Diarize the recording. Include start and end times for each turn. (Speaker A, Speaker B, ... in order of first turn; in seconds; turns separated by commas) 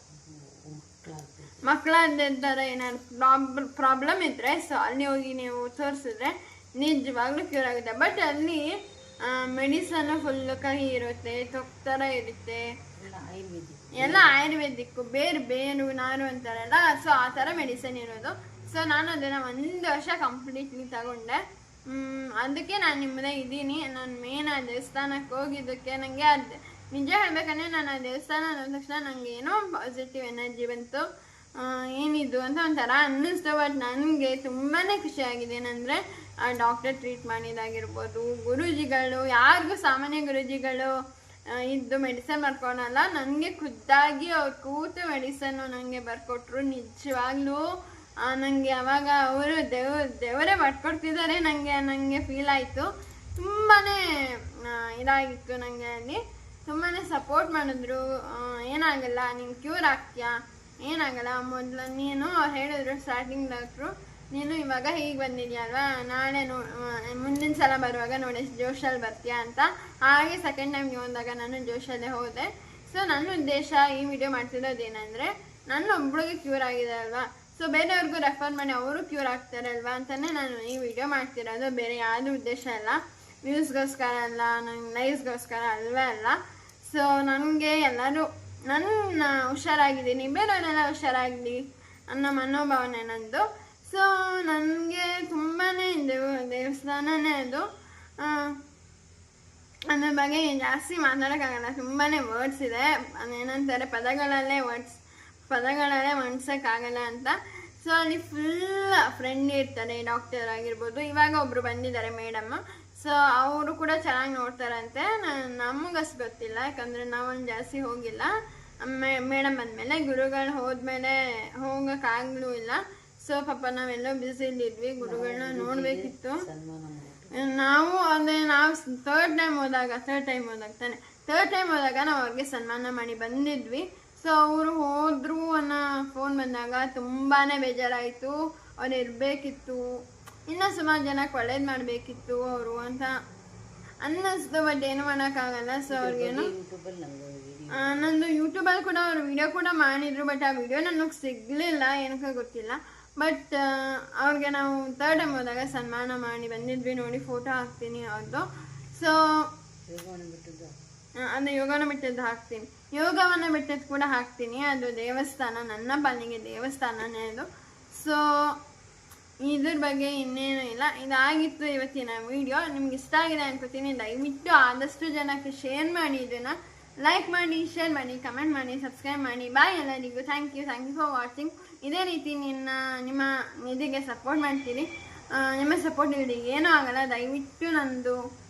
Speaker A: 0.2-1.6, Speaker B: 1.6-12.7, Speaker A: 13.0-14.4, Speaker B: 13.9-31.1, Speaker B: 31.6-40.9, Speaker B: 41.5-47.6, Speaker B: 48.2-97.7, Speaker B: 98.2-98.6, Speaker B: 99.9-118.3, Speaker B: 118.8-126.4, Speaker A: 125.0-127.3, Speaker B: 127.3-139.9, Speaker B: 140.5-143.2, Speaker B: 144.0-146.5, Speaker A: 145.9-148.0, Speaker B: 147.7-159.5, Speaker A: 159.9-160.8, Speaker B: 161.2-168.6, Speaker B: 169.4-188.2